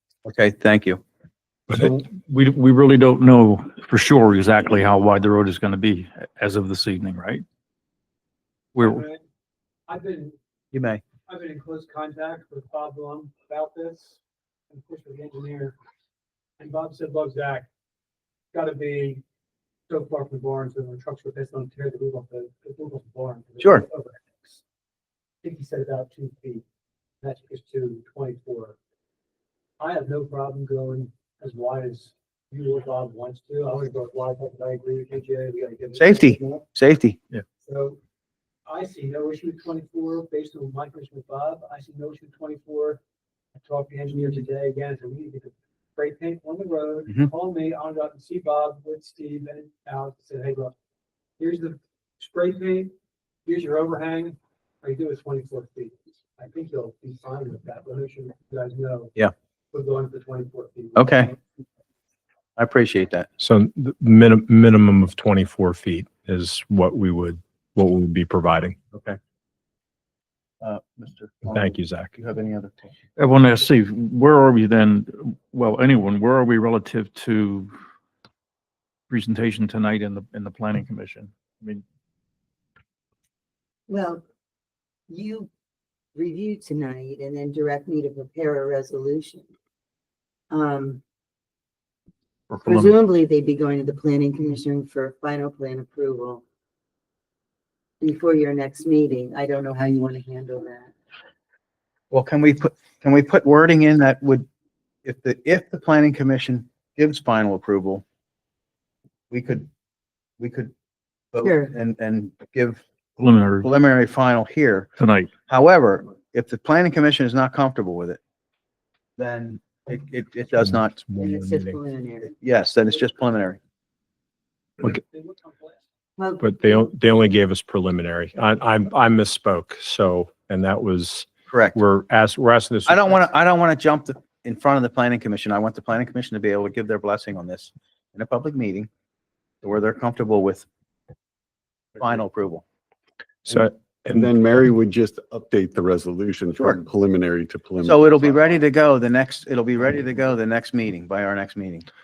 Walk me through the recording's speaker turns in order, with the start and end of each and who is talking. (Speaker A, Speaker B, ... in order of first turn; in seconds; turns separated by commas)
Speaker A: 0.2-1.0, Speaker B: 1.7-7.4, Speaker B: 8.8-9.0, Speaker C: 8.8-9.2, Speaker C: 9.9-10.3, Speaker A: 10.7-11.0, Speaker C: 11.3-14.2, Speaker C: 14.7-15.7, Speaker C: 16.6-17.6, Speaker C: 18.5-19.2, Speaker C: 19.9-24.6, Speaker C: 25.4-26.6, Speaker C: 27.2-28.8, Speaker C: 29.8-36.7, Speaker A: 36.0-37.2, Speaker C: 37.6-38.0, Speaker C: 38.7-43.0, Speaker C: 43.6-50.7, Speaker C: 51.4-52.9, Speaker C: 53.5-59.1, Speaker C: 59.7-61.4, Speaker A: 61.0-61.3, Speaker A: 62.6-63.3, Speaker D: 63.4-68.8, Speaker A: 70.6-72.9, Speaker D: 71.5-72.1, Speaker B: 73.2-77.8, Speaker B: 79.1-81.8, Speaker E: 83.9-84.2, Speaker E: 85.1-85.5, Speaker E: 86.1-89.5, Speaker E: 90.5-91.0, Speaker B: 92.5-92.9, Speaker E: 92.6-96.4, Speaker E: 98.0-100.9, Speaker A: 102.1-104.5, Speaker A: 105.0-108.0, Speaker A: 109.3-109.7, Speaker A: 110.4-110.7, Speaker A: 111.3-112.8, Speaker E: 111.4-111.7, Speaker B: 113.2-113.7, Speaker A: 113.6-114.9, Speaker B: 115.0-115.3, Speaker A: 115.5-118.2, Speaker A: 119.2-121.0, Speaker D: 120.6-121.8, Speaker E: 121.2-122.3, Speaker A: 122.3-123.6, Speaker C: 124.8-125.8, Speaker E: 126.2-126.8, Speaker D: 126.4-133.1, Speaker A: 131.5-131.8, Speaker A: 132.9-138.9, Speaker A: 139.6-140.7, Speaker A: 141.9-142.6, Speaker D: 143.5-144.2, Speaker F: 143.5-148.6, Speaker A: 147.8-151.8